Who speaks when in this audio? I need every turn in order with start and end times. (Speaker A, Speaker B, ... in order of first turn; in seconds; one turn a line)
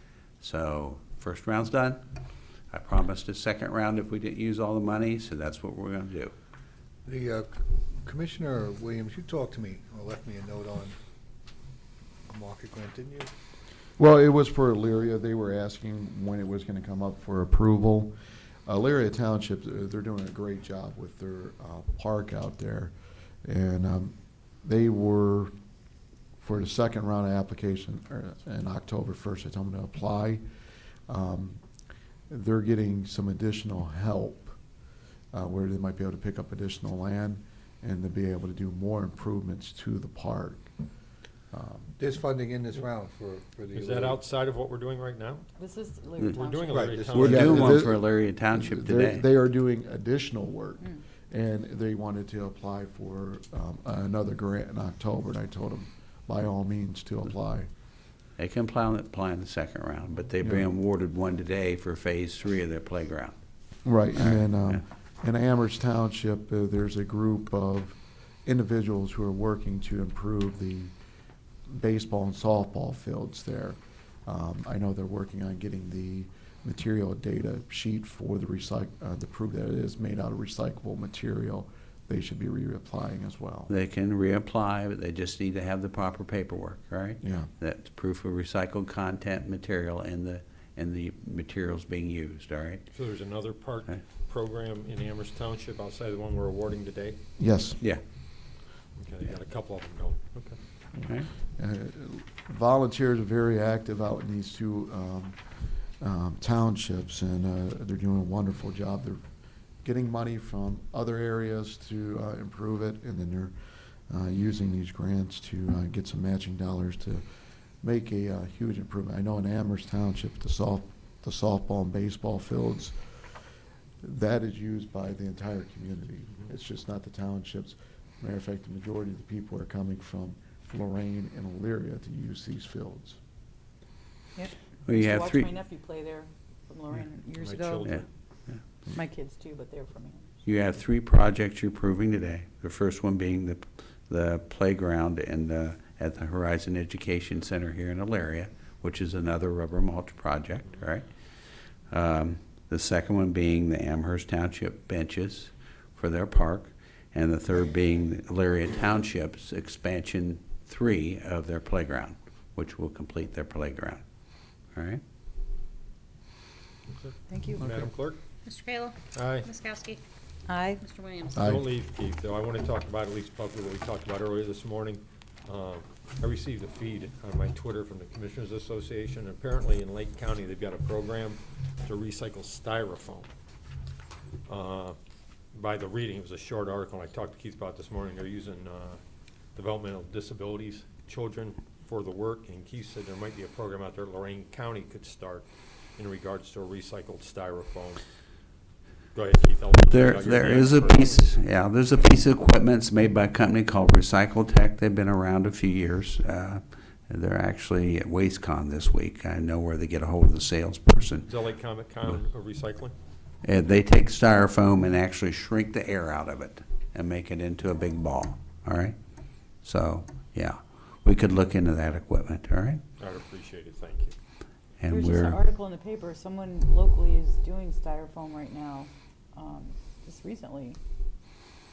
Speaker A: 0.4-2.0
Speaker A: 2.7-6.3
Speaker B: 7.0-10.9
Speaker B: 12.3-13.3
Speaker C: 14.0-18.1
Speaker C: 18.6-22.9
Speaker C: 23.4-25.5
Speaker C: 26.4-30.4
Speaker C: 31.1-31.6
Speaker C: 32.3-34.6
Speaker C: 35.3-40.7
Speaker C: 41.5-41.9
Speaker B: 42.0-44.2
Speaker D: 43.7-45.5
Speaker E: 45.5-46.9
Speaker D: 46.3-47.8
Speaker B: 46.7-47.5
Speaker A: 47.1-49.2
Speaker C: 47.1-57.7
Speaker A: 58.4-63.3
Speaker C: 60.4-60.7
Speaker C: 63.8-70.9
Speaker A: 64.3-64.8
Speaker C: 71.7-83.7
Speaker A: 83.7-92.8
Speaker C: 87.2-87.5
Speaker D: 92.9-97.2
Speaker C: 97.4-97.8
Speaker D: 99.0-100.6
Speaker C: 101.5-105.4
Speaker C: 106.0-109.2
Speaker C: 109.8-113.5
Speaker C: 114.1-117.2
Speaker C: 117.8-123.0
Speaker C: 124.0-133.2
Speaker E: 134.3-138.0
Speaker A: 134.8-135.5
Speaker D: 136.9-138.0
Speaker A: 137.8-138.6
Speaker E: 138.9-140.2
Speaker A: 140.4-151.1
Speaker A: 151.9-164.0
Speaker A: 164.7-165.0
Speaker E: 167.3-167.7
Speaker D: 167.6-168.2
Speaker F: 168.4-170.0
Speaker D: 169.1-169.5
Speaker E: 170.5-170.8
Speaker F: 170.8-171.5
Speaker C: 171.3-171.6
Speaker D: 171.4-183.3
Speaker D: 184.5-185.0
Speaker D: 185.5-189.0
Speaker D: 189.5-198.0
Speaker D: 199.1-201.2
Speaker A: 199.9-211.3
Speaker D: 211.2-212.9
Speaker A: 213.4-218.9
Speaker A: 219.6-222.8
Speaker D: 223.0-224.1
Speaker A: 224.8-225.4
Speaker E: 224.9-230.8